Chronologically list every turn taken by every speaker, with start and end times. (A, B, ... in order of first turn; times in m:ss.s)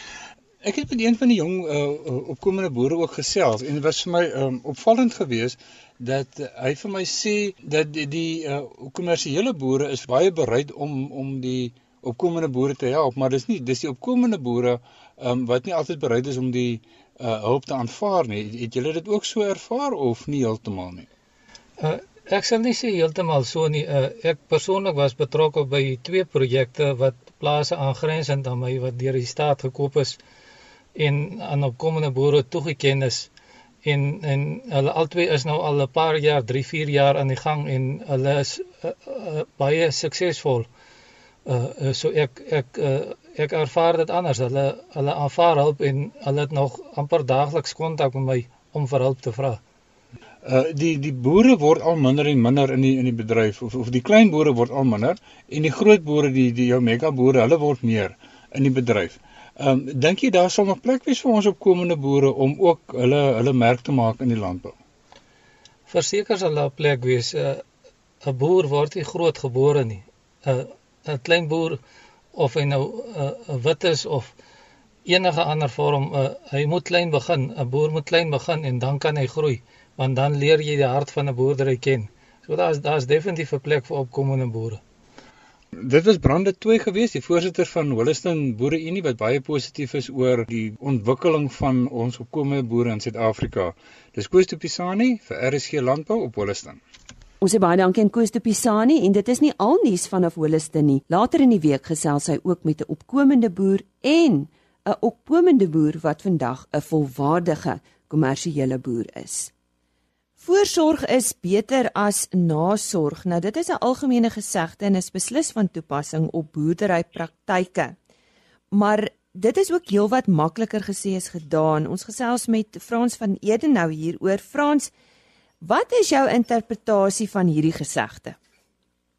0:00.6-0:21.1 A
0:21.8-0:30.2 B
0:31.0-0:33.3 B
0:33.8-0:40.7 B
0:41.4-0:49.6 B
0:50.4-1:04.7 A
1:05.9-1:07.6 B
1:08.2-1:11.8 B
1:12.4-1:14.3 B
1:15.0-1:24.8 B
1:25.8-1:36.8 A
1:37.4-1:49.5 C
1:50.4-1:58.0 C
1:58.7-2:04.9 C
2:05.6-2:08.4 C